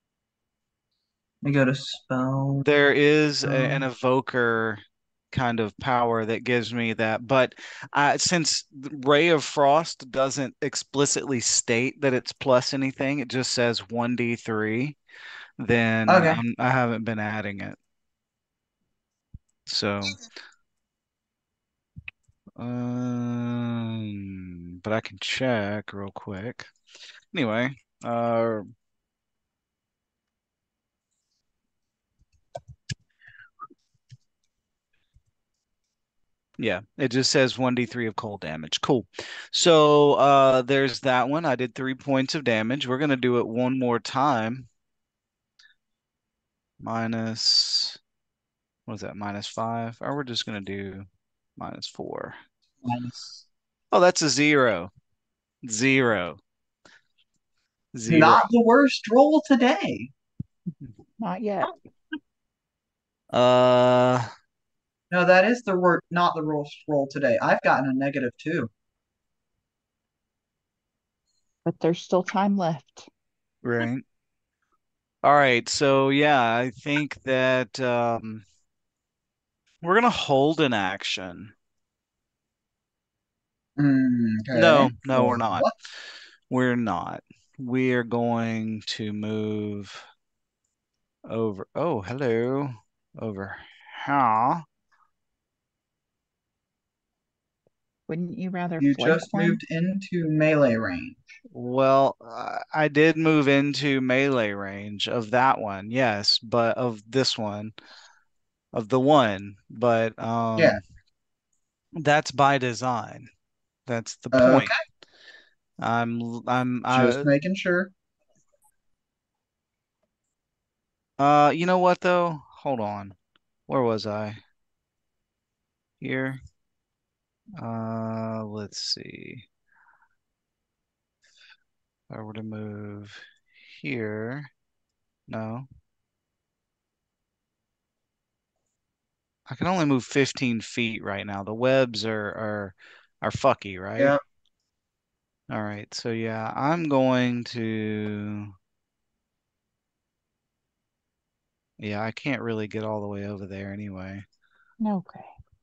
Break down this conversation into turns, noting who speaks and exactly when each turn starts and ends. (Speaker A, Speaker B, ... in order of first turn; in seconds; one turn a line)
Speaker A: 1.4-2.6
Speaker B: 2.6-15.0
Speaker A: 3.5-3.9
Speaker B: 15.6-17.8
Speaker A: 16.1-16.4
Speaker B: 19.7-20.2
Speaker B: 22.6-26.7
Speaker B: 27.3-28.7
Speaker B: 36.6-44.7
Speaker B: 46.8-48.0
Speaker B: 48.9-51.1
Speaker B: 51.6-52.4
Speaker A: 52.8-53.5
Speaker B: 53.9-54.9
Speaker B: 55.6-56.4
Speaker B: 57.9-58.5
Speaker A: 58.1-60.1
Speaker C: 61.2-61.7
Speaker B: 63.3-64.3
Speaker A: 65.1-68.7
Speaker C: 71.7-73.1
Speaker B: 73.6-74.0
Speaker B: 75.2-78.4
Speaker B: 79.8-81.5
Speaker A: 83.8-85.7
Speaker B: 84.5-85.7
Speaker B: 86.5-90.0
Speaker B: 91.3-94.7
Speaker C: 98.1-99.6
Speaker A: 98.8-101.3
Speaker B: 101.5-107.7
Speaker B: 108.7-110.8
Speaker B: 112.0-113.3
Speaker B: 113.9-114.7
Speaker A: 114.3-114.7
Speaker B: 115.8-117.3
Speaker A: 116.9-117.9
Speaker B: 121.2-123.2
Speaker B: 123.7-124.4
Speaker B: 126.0-126.4
Speaker B: 127.6-129.5
Speaker B: 132.1-134.5
Speaker B: 135.3-135.7
Speaker B: 139.5-144.2
Speaker B: 145.5-148.5
Speaker B: 151.8-154.2
Speaker C: 154.8-155.3